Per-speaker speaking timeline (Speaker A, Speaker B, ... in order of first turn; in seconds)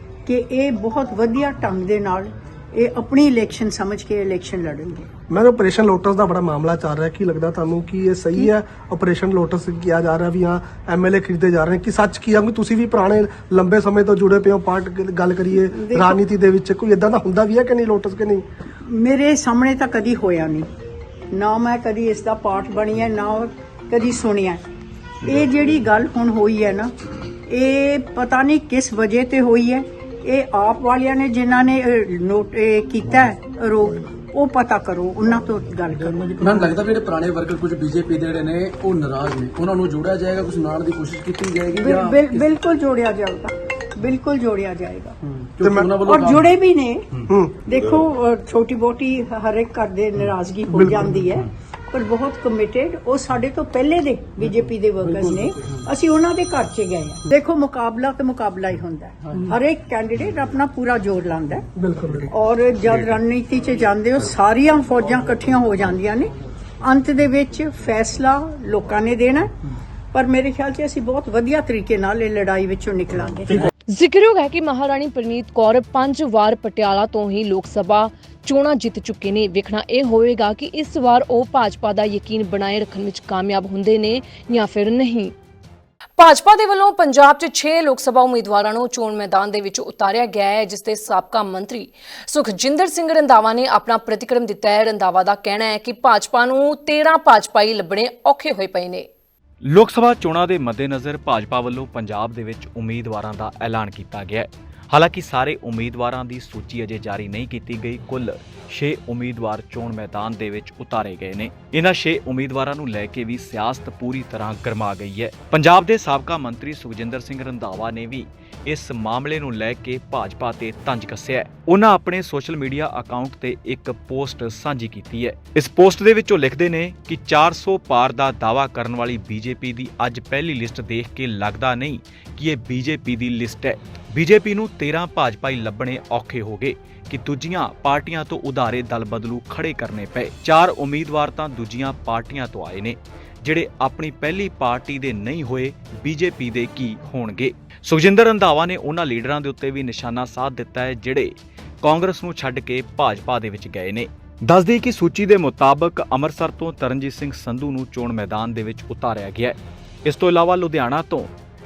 Speaker A: 0.2-5.1, 15.7-16.2, 18.8-20.7, 21.3-24.6, 25.2-26.9, 27.5-36.4, 41.7-45.2, 46.0-61.7, 62.3-69.5, 70.1-73.7
Speaker B: 5.3-18.4, 45.6-46.0, 47.3-47.5, 50.7-51.2, 61.8-62.3
Speaker C: 36.4-42.5, 45.2-46.6, 55.0-55.8, 59.2-59.5
Speaker D: 73.9-85.3, 86.2-99.1
Speaker E: 99.6-161.3